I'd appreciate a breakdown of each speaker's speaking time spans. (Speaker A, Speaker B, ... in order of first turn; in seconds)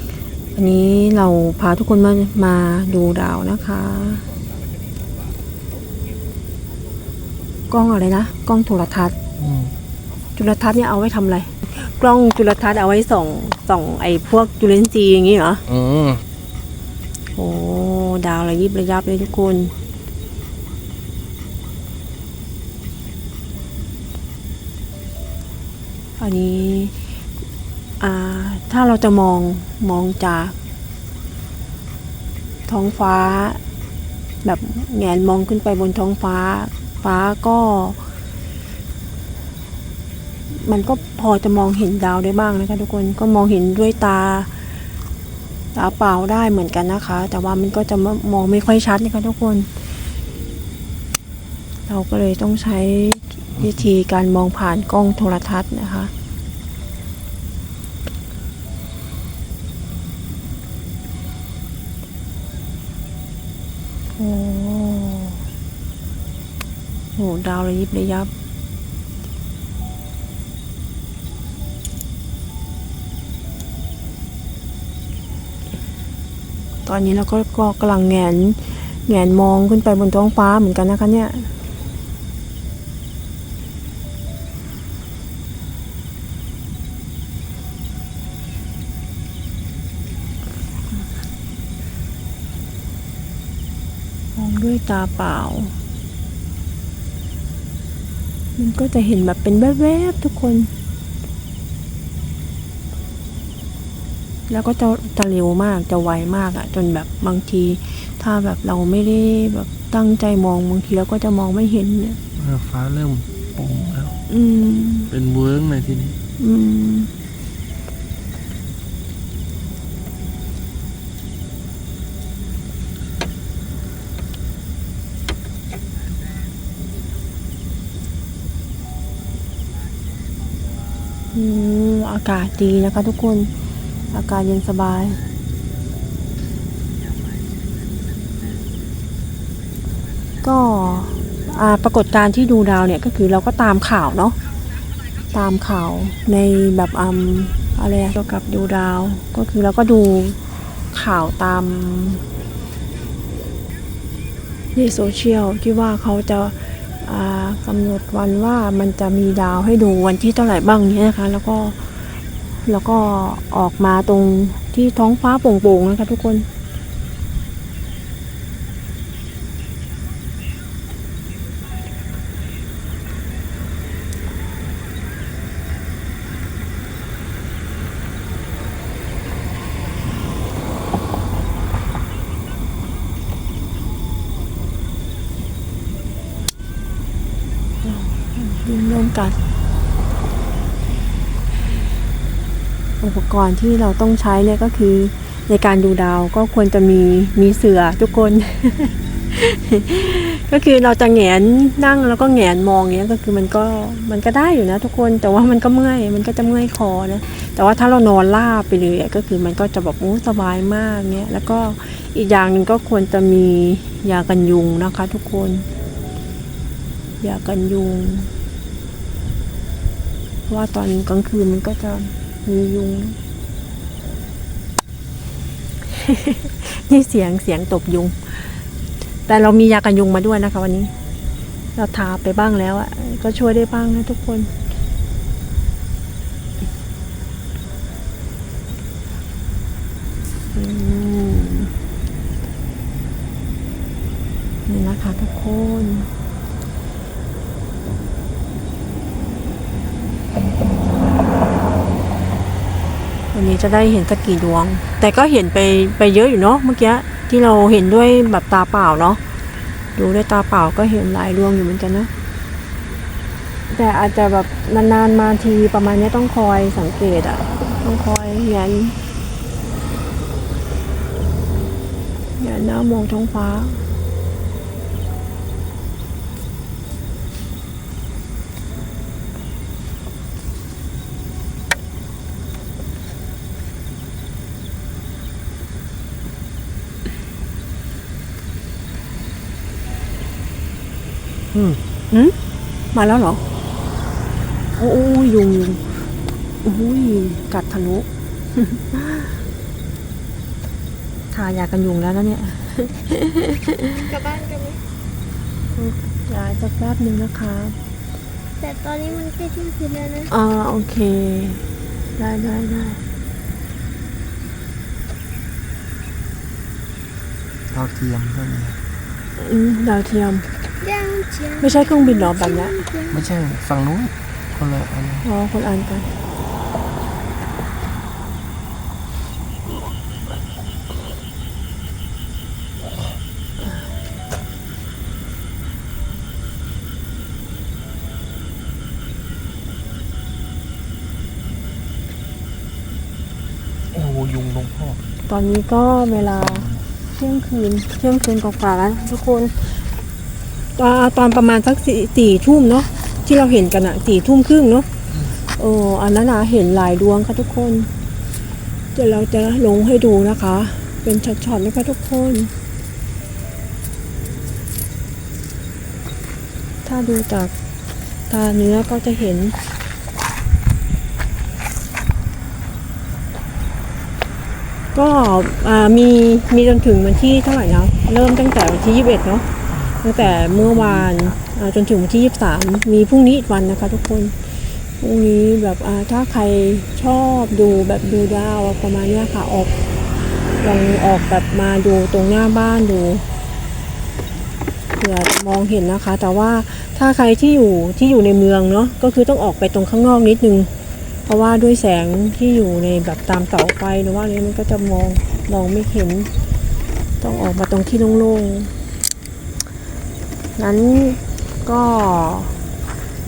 Speaker A: 0.5-4.2, 7.7-9.2, 10.3-15.6, 17.4-19.7, 26.2-26.9, 28.0-30.6, 32.7-33.6, 34.4-38.0, 40.5-44.5, 45.7-49.7, 51.9-56.1, 64.2-65.4, 67.2-68.3, 76.8-81.5, 94.3-95.7, 98.5-100.7, 104.5-112.2, 114.3-115.1, 116.4-117.1, 131.3-133.5, 134.1-135.2, 140.4-144.3, 145.3-150.4, 150.9-152.2, 154.7-162.0, 162.6-166.5, 187.8-189.4, 193.0-215.7, 217.2-218.3, 220.5-223.2, 225.8-228.6, 229.3-230.9, 231.8-234.5, 240.5-241.7, 244.7-246.1, 253.3-259.2, 259.9-262.1, 263.7-268.9, 272.4-273.8, 291.6-292.4, 292.9-293.4, 294.8-299.4, 301.3-304.1, 305.7-307.8, 310.3-311.6, 312.2-313.0, 319.4-320.5, 321.6-322.8, 325.2-326.1, 345.2-349.8, 350.8-357.9, 358.9-362.5, 366.8-367.5, 368.3-369.6, 374.9-384.4, 385.0-389.8, 390.6-393.2, 395.0-400.7, 401.2-406.3, 407.2-408.7, 410.6-412.6
Speaker B: 9.4-9.7, 15.7-16.2, 112.3-114.2, 115.1-116.2, 317.7-318.8, 323.1-325.3, 343.9-345.0, 379.8-381.2
Speaker C: 304.1-304.8, 308.6-310.3, 320.8-323.2